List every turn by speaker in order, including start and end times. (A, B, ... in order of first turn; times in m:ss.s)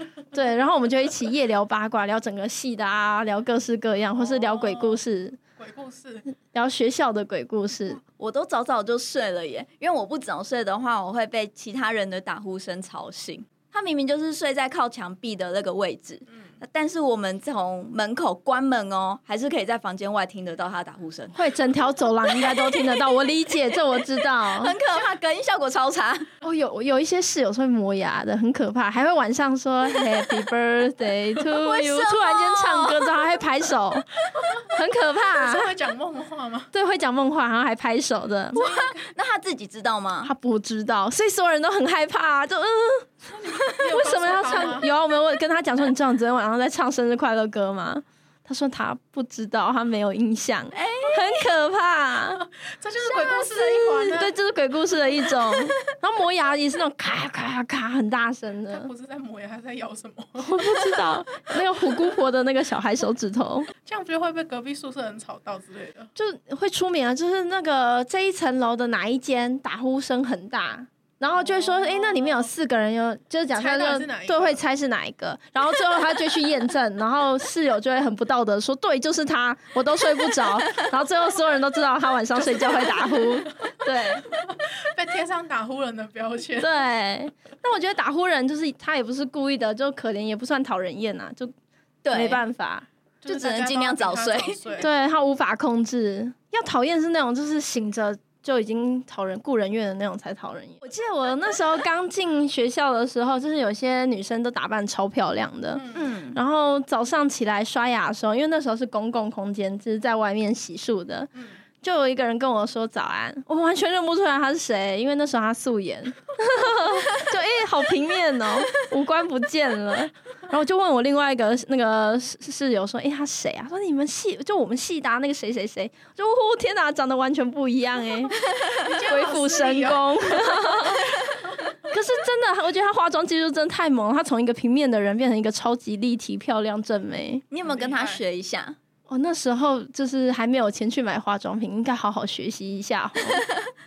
0:00.3-0:05.4 A
0:04.1-0:05.0 B
0:05.6-0:06.3 B
0:06.5-0:08.0 A
0:08.2-0:21.5 C
0:21.3-0:24.7 A
0:22.2-0:22.9 C
0:24.5-0:26.3 C
0:26.4-0:34.1 A
0:31.5-0:33.2 C
0:34.6-0:35.7 A
0:35.4-0:36.7 B
0:36.7-0:38.6 A
0:38.5-0:39.1 B
0:38.5-0:40.3 C
0:40.2-0:43.4 A
0:43.3-0:44.9 B
0:43.9-0:52.4 A
0:50.7-0:51.4 C
0:52.6-0:54.3 B
0:53.0-0:58.9 A
0:58.7-1:01.1 B
1:00.4-1:03.7 A
1:01.8-1:02.1 B
1:03.8-1:06.1 B
1:06.2-1:24.3 A
1:11.4-1:12.5 B
1:13.5-1:14.6 B
1:22.4-1:23.3 B
1:24.3-1:26.7 B
1:26.6-1:31.5 A
1:32.0-1:32.4 C
1:32.1-1:32.9 A
1:33.2-1:34.9 B
1:33.3-1:34.6 C
1:34.8-1:51.3 A
1:45.7-1:46.1 B
1:45.9-1:46.4 C
1:51.8-2:08.4 A
2:08.8-2:10.9 B
2:09.0-2:11.1 A
2:11.9-2:17.4 A
2:17.5-2:18.8 C
2:17.6-2:18.2 B
2:19.1-2:23.4 A